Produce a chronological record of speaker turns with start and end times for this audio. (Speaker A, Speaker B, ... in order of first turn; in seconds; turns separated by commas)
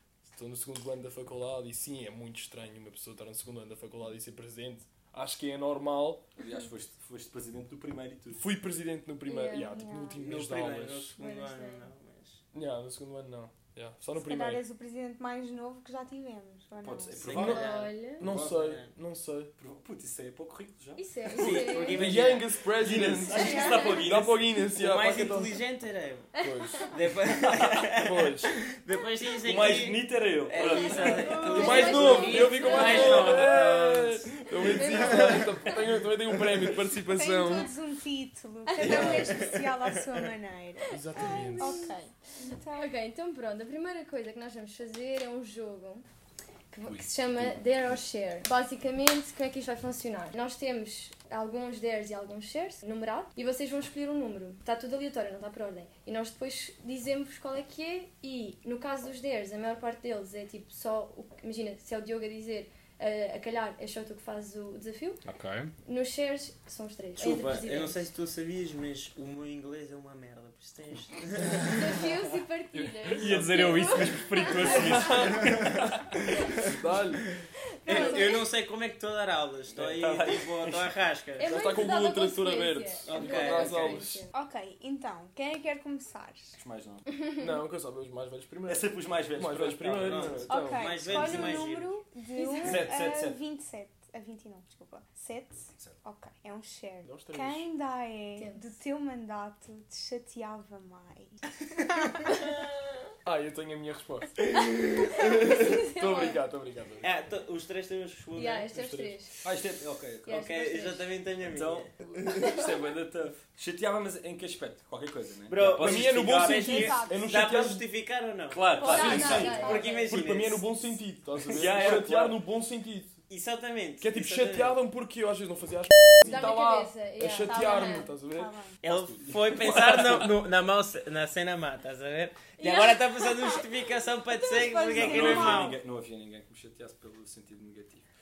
Speaker A: 0.3-6.2, Speaker B: 6.4-8.4, Speaker A: 8.3-11.1, Speaker C: 9.3-9.8, Speaker D: 9.6-10.2, Speaker E: 10.2-12.4, Speaker C: 11.2-11.9, Speaker A: 12.5-14.6, Speaker D: 14.2-17.2, Speaker B: 16.8-17.7, Speaker E: 17.1-18.9, Speaker A: 17.3-19.5, Speaker C: 17.3-18.2, Speaker B: 18.2-18.6, Speaker B: 19.6-22.0, Speaker C: 21.0-22.2, Speaker E: 21.3-22.5, Speaker A: 21.9-25.6, Speaker B: 22.8-24.4, Speaker D: 23.3-24.0, Speaker E: 24.8-26.3, Speaker C: 26.4-26.6, Speaker A: 26.4-26.9, Speaker E: 26.9-35.7, Speaker B: 27.5-27.8, Speaker A: 28.0-28.5, Speaker B: 29.4-31.9, Speaker D: 31.0-32.9, Speaker C: 31.4-33.6, Speaker A: 31.6-37.7, Speaker C: 34.7-35.4, Speaker D: 37.1-42.9, Speaker E: 38.8-39.9, Speaker B: 38.8-39.2, Speaker C: 38.9-39.2, Speaker A: 40.9-41.9, Speaker C: 41.0-46.0, Speaker C: 46.7-65.2, Speaker B: 46.9-48.0, Speaker B: 65.3-65.7, Speaker C: 65.9-68.0, Speaker E: 67.2-71.9, Speaker C: 71.6-75.3, Speaker B: 72.8-75.9, Speaker A: 74.7-75.5, Speaker A: 76.6-77.3, Speaker C: 77.8-78.4, Speaker E: 77.8-81.5, Speaker B: 79.7-80.8, Speaker C: 81.4-84.3, Speaker A: 81.4-84.3, Speaker E: 83.1-84.0, Speaker D: 84.3-86.6, Speaker B: 86.6-87.0, Speaker A: 87.4-91.5, Speaker B: 88.7-90.5, Speaker E: 89.8-92.0, Speaker D: 90.5-101.6, Speaker B: 91.1-91.5, Speaker C: 92.4-92.9, Speaker B: 92.6-93.4, Speaker A: 97.0-97.7, Speaker C: 98.4-98.7, Speaker E: 102.2-102.5, Speaker A: 103.2-104.4, Speaker C: 105.3-106.4, Speaker A: 105.5-107.1, Speaker E: 107.0-109.1, Speaker C: 108.3-109.4, Speaker B: 109.4-110.5, Speaker C: 110.3-111.0, Speaker E: 110.3-111.9, Speaker B: 111.5-117.0, Speaker E: 115.5-120.6, Speaker A: 115.8-117.8, Speaker B: 118.5-119.8, Speaker C: 118.8-120.1, Speaker A: 118.8-123.2, Speaker B: 121.5-122.4, Speaker E: 123.3-124.8, Speaker A: 124.0-129.3, Speaker C: 126.2-128.1, Speaker D: 128.3-128.8, Speaker E: 128.8-135.8, Speaker B: 129.3-130.3, Speaker C: 132.6-133.5, Speaker D: 134.5-135.6, Speaker B: 134.9-138.0, Speaker A: 135.0-135.6